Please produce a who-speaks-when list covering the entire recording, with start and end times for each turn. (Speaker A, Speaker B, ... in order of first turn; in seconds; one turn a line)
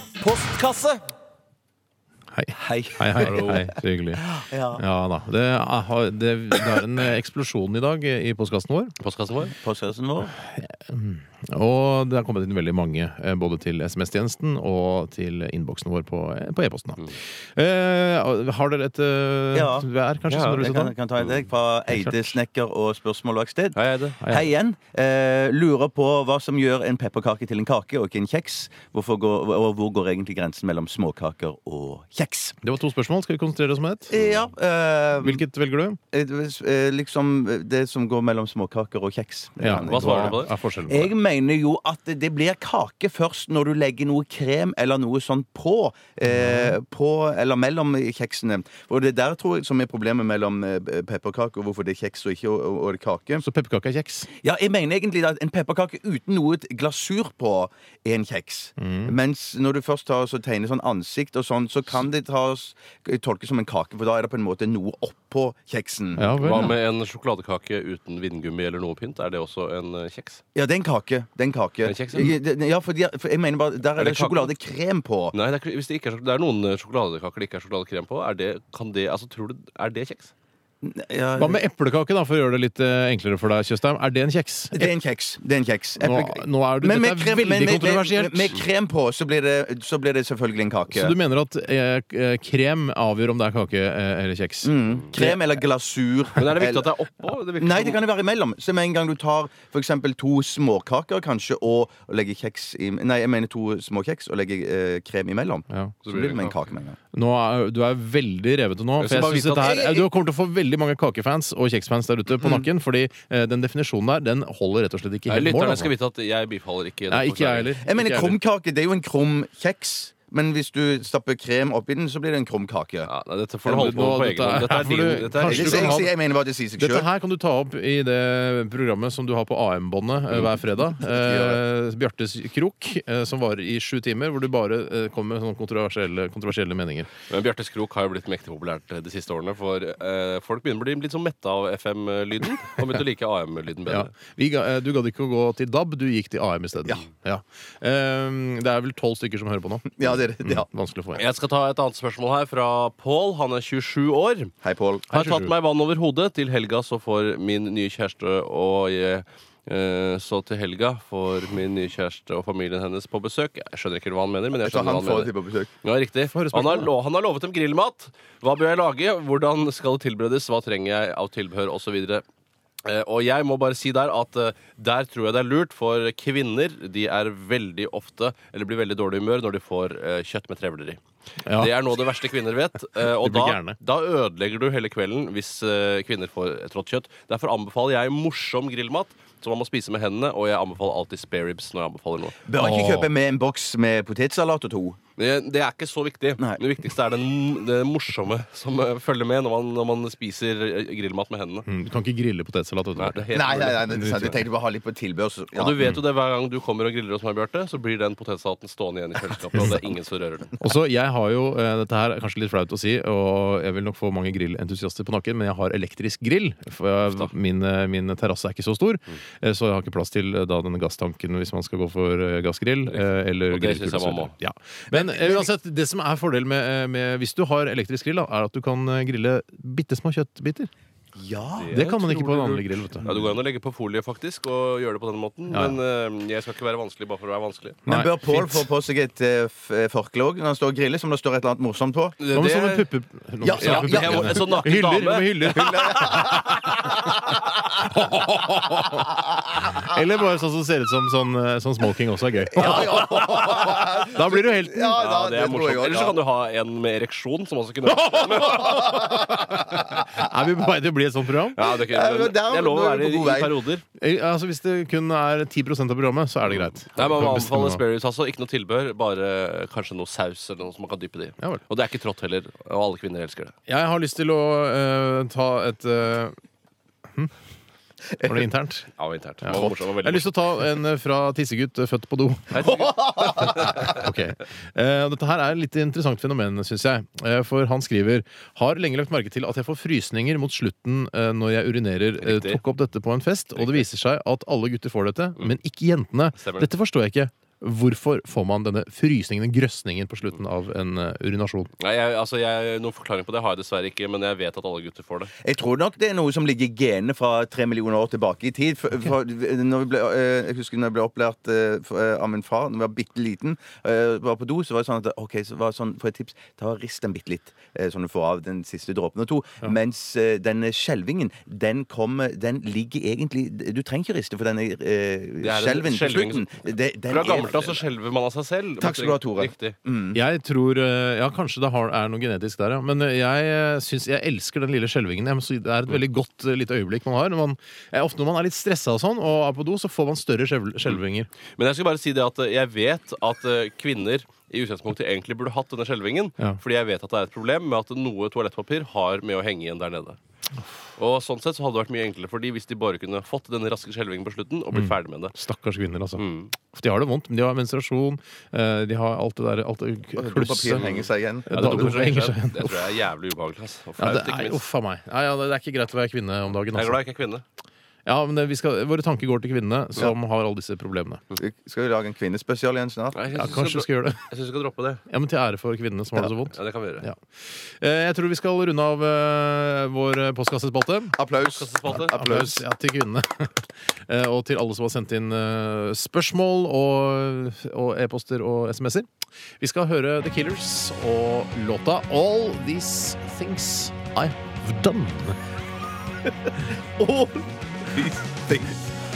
Speaker A: 2.3-8.9
Speaker B: 2.6-3.4
Speaker C: 3.2-3.7
Speaker B: 4.2-4.8
Speaker C: 9.0-9.6
Speaker B: 9.5-10.3
Speaker A: 10.5-20.9
Speaker B: 19.5-19.9
Speaker C: 20.3-20.6
Speaker B: 20.6-32.6
Speaker A: 21.9-22.4
Speaker C: 23.7-24.2
Speaker A: 24.2-24.5
Speaker A: 32.6-34.1
Speaker B: 34.1-35.5
Speaker C: 34.1-34.4
Speaker A: 35.2-36.0
Speaker B: 36.1-53.4
Speaker A: 39.6-41.1
Speaker C: 39.8-40.5
Speaker A: 46.3-46.8
Speaker A: 53.4-54.3
Speaker B: 54.4-66.6
Speaker A: 58.8-59.1
Speaker A: 66.2-66.8
Speaker C: 66.4-70.4
Speaker B: 70.5-75.3
Speaker C: 71.8-72.4
Speaker C: 74.0-74.5
Speaker C: 75.3-80.3
Speaker B: 80.8-81.6
Speaker A: 81.4-84.9
Speaker B: 84.7-91.2
Speaker A: 86.0-88.6
Speaker A: 90.9-94.7
Speaker B: 94.6-96.9
Speaker C: 95.0-95.4
Speaker C: 96.4-98.0
Speaker B: 97.6-107.0
Speaker A: 105.7-106.0
Speaker C: 106.0-106.6
Speaker A: 107.1-115.9
Speaker C: 109.0-109.7
Speaker B: 109.2-110.1
Speaker B: 112.4-112.7
Speaker C: 115.3-117.7
Speaker A: 117.1-118.4
Speaker B: 117.8-123.1
Speaker C: 123.0-126.0
Speaker A: 123.7-126.1
Speaker B: 125.5-127.1
Speaker A: 126.8-137.1
Speaker B: 130.9-131.6
Speaker C: 137.3-144.1
Speaker A: 143.9-151.2
Speaker B: 150.0-150.7
Speaker C: 151.2-154.5
Speaker B: 154.6-155.1
Speaker C: 155.1-172.2
Speaker A: 155.1-155.5
Speaker B: 164.6-165.7
Speaker A: 166.3-166.9
Speaker C: 172.8-181.0
Speaker A: 181.5-181.7
Speaker C: 181.6-192.4
Speaker A: 183.2-183.8
Speaker B: 192.4-195.0
Speaker A: 192.6-193.1
Speaker C: 195.2-201.7
Speaker A: 201.7-204.4
Speaker C: 203.0-204.3
Speaker B: 203.3-205.8
Speaker C: 205.5-210.5
Speaker A: 209.6-209.8
Speaker A: 210.6-230.7
Speaker C: 217.0-217.3
Speaker C: 222.9-224.3
Speaker B: 224.9-225.5
Speaker B: 231.2-231.8
Speaker C: 231.6-232.5
Speaker A: 231.7-233.1
Speaker C: 233.0-237.8
Speaker A: 235.5-235.8
Speaker A: 237.9-238.7
Speaker B: 237.9-242.2
Speaker C: 242.2-242.9
Speaker A: 242.3-247.2
Speaker B: 243.4-244.6
Speaker C: 243.6-245.8
Speaker B: 245.5-246.7
Speaker A: 247.8-255.1
Speaker B: 252.5-256.2
Speaker C: 252.6-253.8
Speaker C: 254.9-258.8
Speaker A: 257.9-261.6
Speaker C: 261.5-263.8
Speaker B: 261.7-263.6
Speaker A: 264.0-267.8
Speaker C: 266.5-273.5
Speaker A: 273.7-276.3
Speaker A: 278.2-278.9
Speaker C: 279.0-280.3
Speaker A: 279.4-282.8
Speaker C: 282.5-284.0
Speaker B: 282.7-283.8
Speaker A: 283.4-301.7
Speaker C: 292.2-292.6
Speaker C: 293.6-293.9
Speaker C: 296.4-296.7
Speaker C: 301.8-305.3
Speaker B: 305.4-327.8
Speaker C: 325.4-326.5
Speaker C: 327.1-329.8
Speaker B: 328.8-330.2
Speaker A: 330.1-341.3
Speaker C: 341.6-350.2
Speaker C: 351.0-355.4
Speaker A: 354.7-360.9
Speaker C: 356.2-356.5
Speaker B: 360.2-361.9
Speaker C: 360.8-364.6
Speaker A: 361.5-362.9
Speaker A: 364.0-367.0
Speaker C: 366.7-367.4
Speaker A: 368.1-371.2
Speaker B: 371.4-373.2
Speaker C: 373.1-375.0
Speaker A: 373.3-374.2
Speaker A: 375.1-381.2
Speaker C: 376.5-377.1
Speaker B: 381.2-382.6
Speaker C: 381.5-382.2
Speaker A: 381.9-389.1
Speaker A: 389.6-395.4
Speaker B: 397.0-398.8